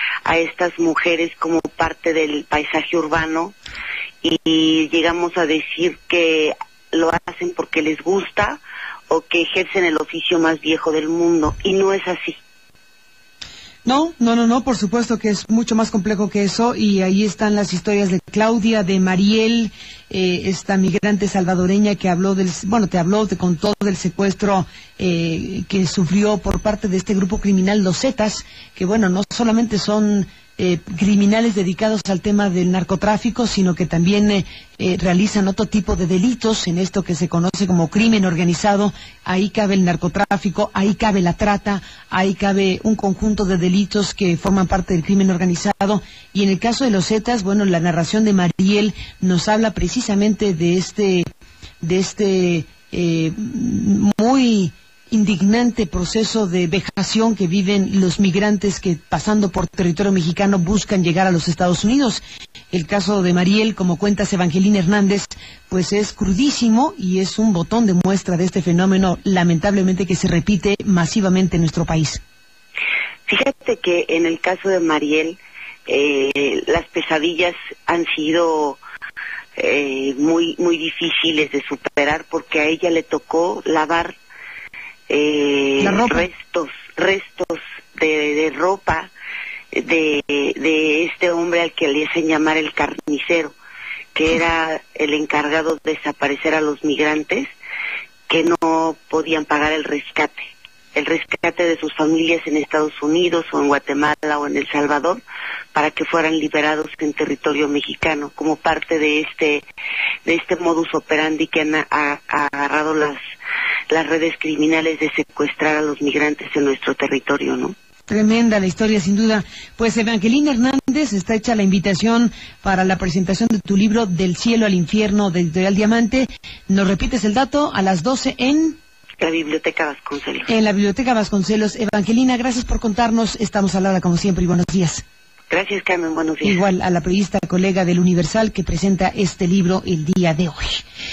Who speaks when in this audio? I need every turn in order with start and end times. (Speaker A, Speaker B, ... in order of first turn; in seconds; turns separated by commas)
Speaker A: 0.2-3.5, Speaker A: 4.2-12.4, Speaker B: 13.8-51.3, Speaker B: 51.8-62.2, Speaker B: 62.7-72.2, Speaker A: 73.2-78.8, Speaker A: 79.6-84.1, Speaker A: 85.1-89.1, Speaker B: 85.8-86.3, Speaker A: 89.7-93.5, Speaker A: 94.1-97.5, Speaker A: 98.3-105.2, Speaker A: 105.7-109.7, Speaker A: 110.2-113.2, Speaker A: 113.9-117.7, Speaker B: 118.1-128.8, Speaker A: 129.2-130.5, Speaker B: 130.5-135.0, Speaker A: 135.5-136.6, Speaker B: 136.4-140.8